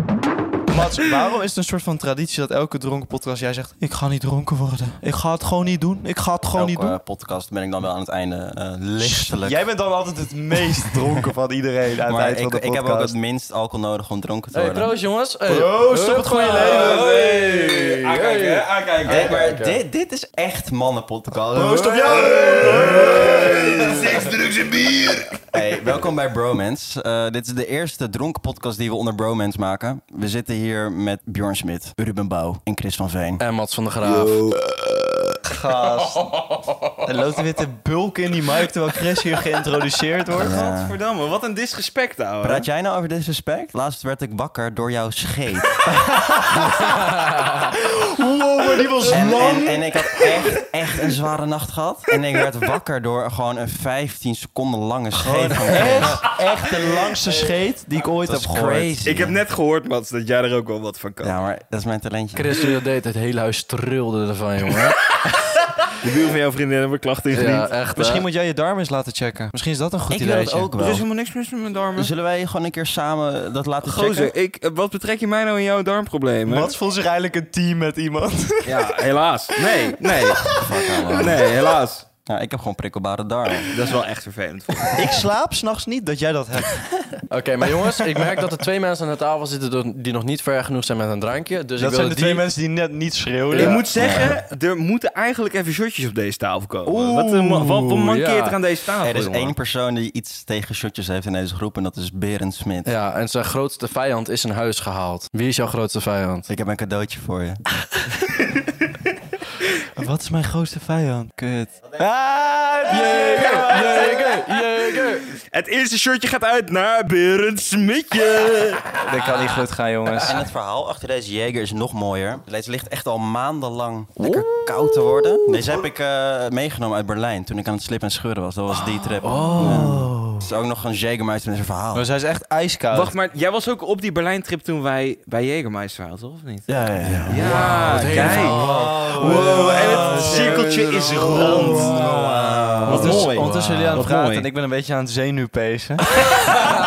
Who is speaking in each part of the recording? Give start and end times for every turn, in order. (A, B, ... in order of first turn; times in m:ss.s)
0:00.7-0:07.0 A
0:06.5-0:09.6 B
0:09.0-0:13.2 A
0:12.0-0:14.9 B
0:14.5-0:19.8 C
0:15.5-0:17.1 A
0:16.5-0:19.5 D
0:19.0-0:23.3 B
0:21.5-0:23.9 A
0:22.2-0:25.5 D
0:25.5-0:33.4 B
0:33.4-0:34.5 C
0:34.0-0:35.2 D
0:35.4-0:36.4 A
0:37.0-0:40.6 A
0:40.3-0:41.0 B
0:40.4-0:42.7 D
0:42.4-0:45.9 B
0:45.9-0:47.0 A
0:47.2-0:47.6 C
0:47.7-0:50.4 A
0:49.1-0:56.2 B
0:55.1-0:59.0 A
0:58.2-0:59.4 B
0:59.0-1:01.4 D
1:01.2-1:02.4 B
1:02.4-1:05.2 C
1:06.0-1:07.7 D
1:07.3-1:08.2 C
1:08.0-1:10.7 A
1:10.1-1:11.0 B
1:10.8-1:12.1 D
1:12.0-1:14.3 B
1:13.8-1:16.8 D
1:16.5-1:19.0 A
1:18.6-1:20.6 D
1:19.7-1:21.2 A
1:20.5-1:21.5 B
1:21.1-1:22.1 D
1:22.3-1:23.7 B
1:23.7-1:25.2 D
1:25.0-1:26.8 A
1:27.3-1:32.5 C
1:31.8-1:34.2 A
1:33.5-1:33.8 C
1:33.5-1:39.5 D
1:33.9-1:34.4 B
1:36.9-1:38.1 A
1:38.1-1:38.6 C
1:39.0-1:42.9 B
1:42.8-1:46.5 C
1:46.5-1:47.6 B
1:49.9-1:54.3 A
1:52.9-1:55.3 C
1:53.4-1:54.3 D
1:55.3-1:58.9 D
1:59.0-2:00.4 A
2:00.2-2:12.1 B
2:04.2-2:05.6 A
2:08.7-2:10.2 A
2:09.2-2:10.4 C
2:11.9-2:13.1 A
2:12.9-2:16.7 D
2:16.7-2:23.3 B
2:17.0-2:17.4 A
2:17.3-2:22.0 D
2:17.4-2:18.7 C
2:18.5-2:26.1 A
2:22.9-2:24.5 D
2:23.0-2:24.1 C